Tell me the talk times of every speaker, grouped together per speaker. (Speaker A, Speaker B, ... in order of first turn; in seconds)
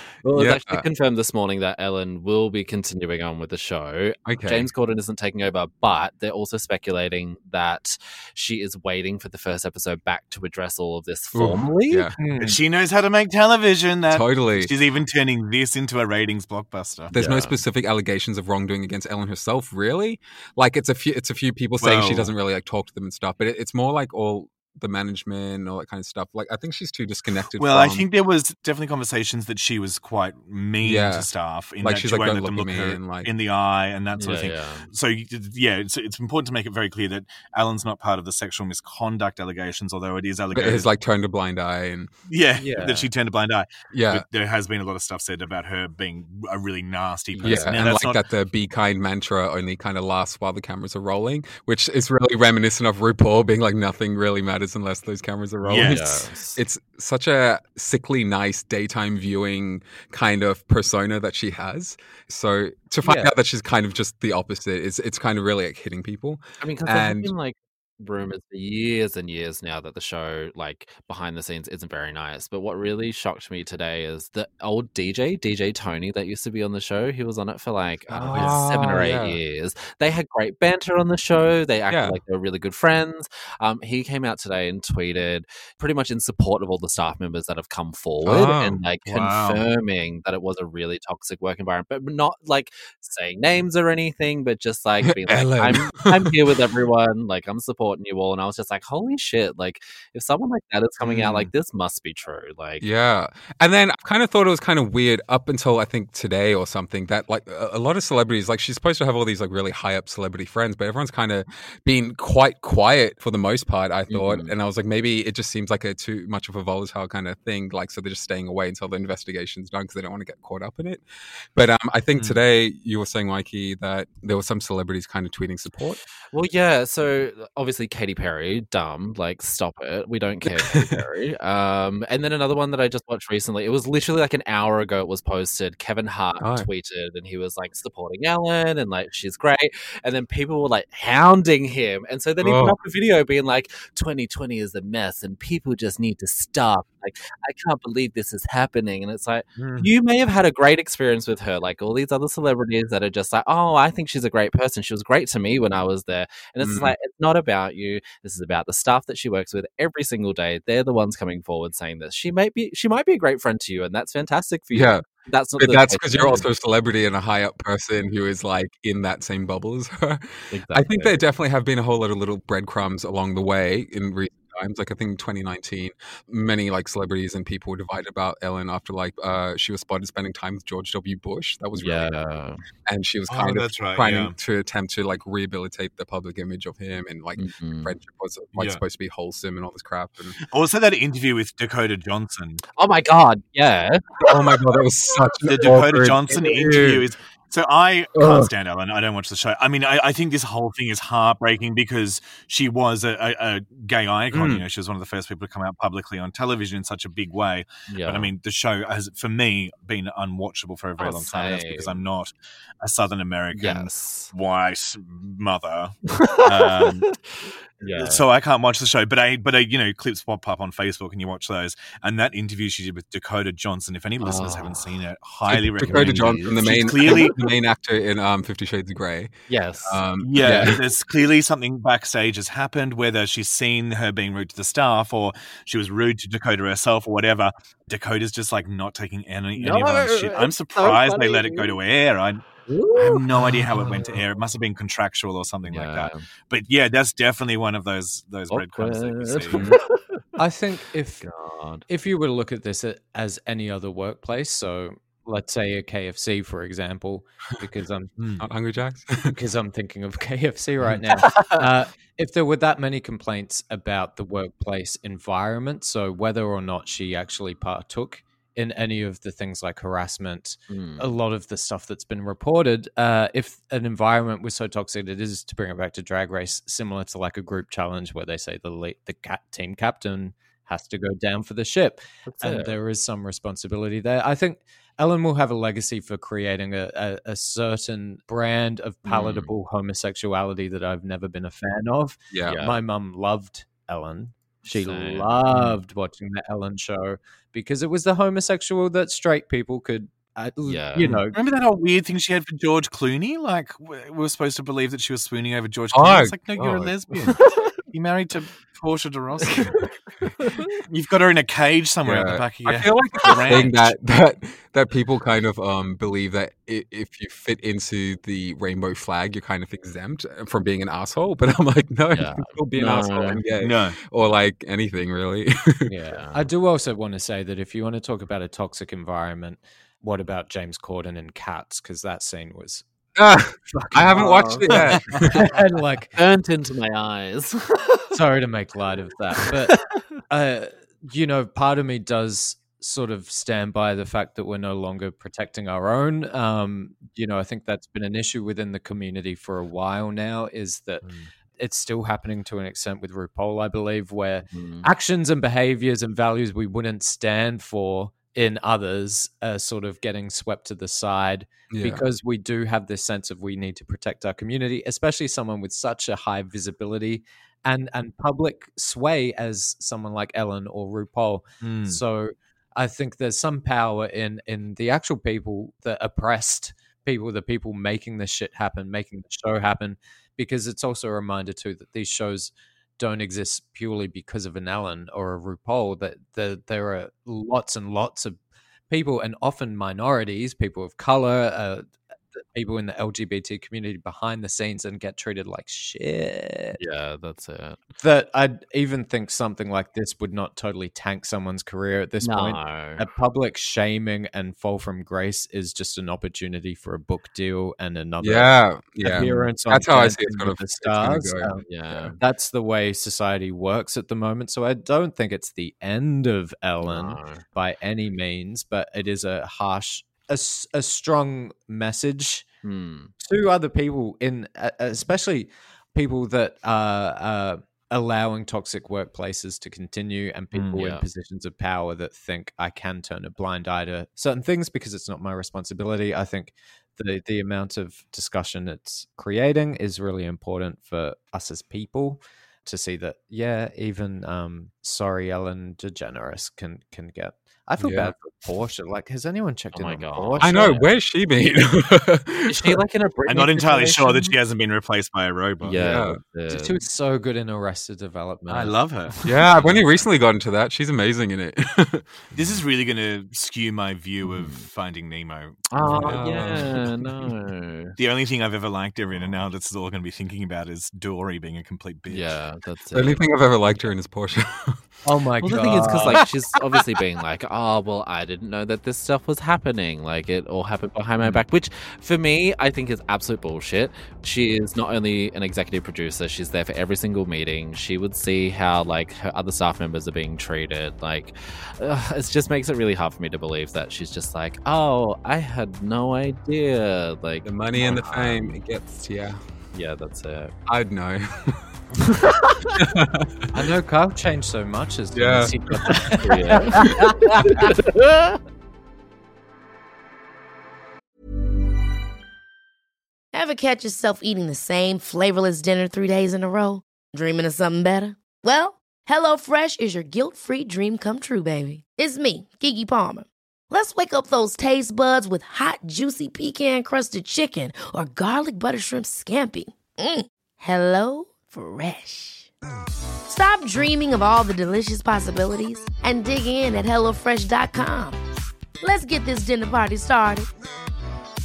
Speaker A: 0.2-12.1, 17.2-17.5, 34.1-34.9, 47.3-47.7, 55.8-56.3, 66.6-102.9, 114.1-114.5, 126.3-166.4, 170.5-171.2, 181.8-182.6, 187.4-187.9, 192.8-194.3, 207.9-208.3, 211.0-212.0, 213.5-214.3, 217.8-218.2, 224.2-224.9, 225.8-227.2, 229.5-230.0, 239.6-241.8, 242.7-243.3, 243.8-244.1, 245.7-246.2, 248.5-250.0, 251.2-251.8, 261.2-261.6, 270.7-271.1, 282.2-282.7, 289.1-289.5, 292.4-292.8, 294.7-295.8, 300.6-301.2, 309.5-310.6, 322.1-323.4, 326.1-326.4, 334.1-335.4, 336.1-338.1, 339.4-340.0, 354.5-354.9, 396.8-397.8, 402.2-403.0, 411.7-412.2, 416.8-417.4, 422.6-423.1, 430.5-431.0, 449.7-450.7, 452.5-454.3, 455.6-456.8, 464.3-464.6, 465.7-467.9, 472.1-473.2, 475.4-498.6, 499.7-500.5, 502.2-502.7, 506.2-508.4
Speaker B: 0.3-0.8, 4.2-4.7, 11.3-12.2, 14.1-14.7, 17.1-28.1, 30.8-31.3, 31.8-33.3, 40.5-42.1, 43.9-44.2, 47.4-67.3, 78.1-79.4, 81.9-82.2, 88.2-88.8, 95.0-96.3, 101.0-101.5, 102.8-126.0, 130.4-131.0, 136.4-136.7, 142.4-142.8, 156.6-156.9, 164.7-182.1, 182.8-190.4, 194.3-197.1, 198.2-198.5, 204.3-204.6, 225.5-229.3, 229.8-230.8, 249.5-249.8, 258.4-259.4, 292.3-292.6, 305.9-307.3, 312.0-325.9, 333.1-335.4, 361.7-362.0, 408.2-412.1, 447.8-448.1, 450.4-452.8, 455.8-456.2, 459.2-462.6, 465.8-467.3, 472.9-474.8, 497.4-499.4, 500.7-501.7, 502.8-503.3, 505.1-505.5
Speaker C: 12.2-12.6, 42.5-43.1, 63.0-63.3, 149.6-149.9, 250.4-251.3, 251.9-258.1, 259.3-301.4, 325.9-332.8, 333.7-334.5, 335.3-336.1, 338.1-396.8, 398.0-411.6, 412.2-422.4, 423.2-450.9, 456.5-458.7, 475.0-476.2, 503.5-507.7
Speaker D: 12.4-17.1, 21.8-22.3, 27.6-40.9, 42.3-48.2, 55.6-56.4, 89.0-89.6, 183.3-184.3, 188.5-188.8, 190.5-192.6, 195.4-217.1, 217.9-227.5, 230.2-249.7, 301.3-307.4, 307.9-309.8, 310.9-313.9, 323.6-324.0, 334.7-335.0, 371.6-372.0, 453.3-455.8, 458.6-459.2, 462.3-466.4, 468.0-472.4
Speaker E: 513.3-532.5, 533.3-538.2, 538.8-540.5